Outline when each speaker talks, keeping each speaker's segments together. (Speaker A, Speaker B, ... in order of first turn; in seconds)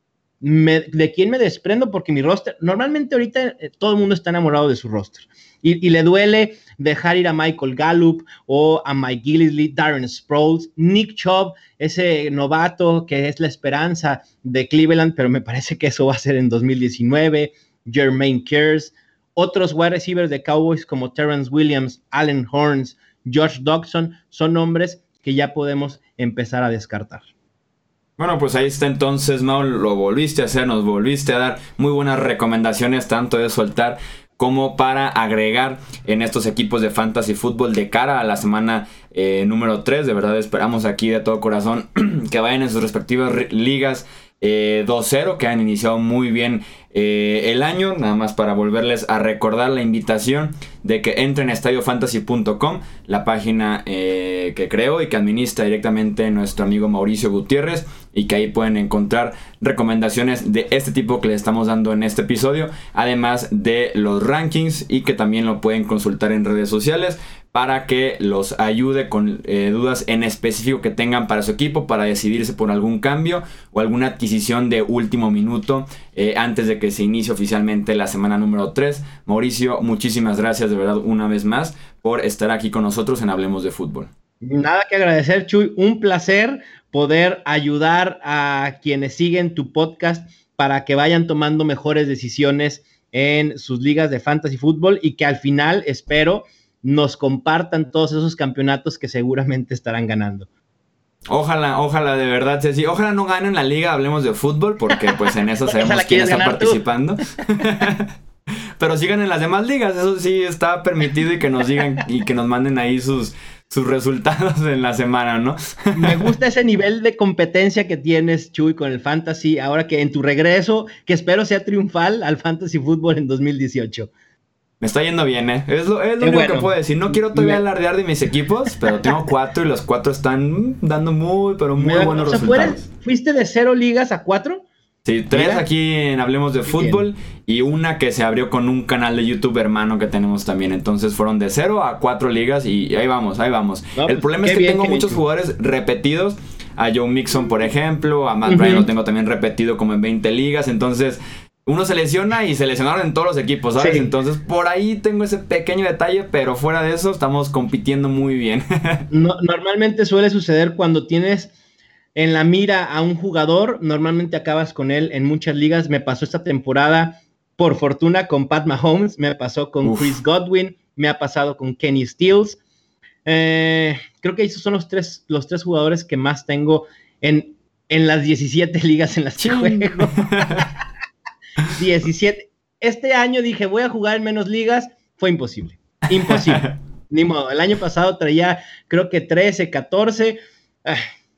Speaker A: 0.4-27.2, 84.4-100.5, 104.9-106.8, 115.9-124.1, 126.2-127.6, 131.8-134.6, 135.3-135.7, 136.7-137.0, 144.0-145.2, 148.4-148.9, 153.8-154.1, 159.1-161.5, 162.1-172.6, 173.2-180.7, 181.8-191.0
Speaker B: 28.2-84.1, 101.3-108.1, 108.8-116.3, 124.8-132.8, 135.0-159.0, 169.8-170.2, 179.4-180.7, 186.3-186.7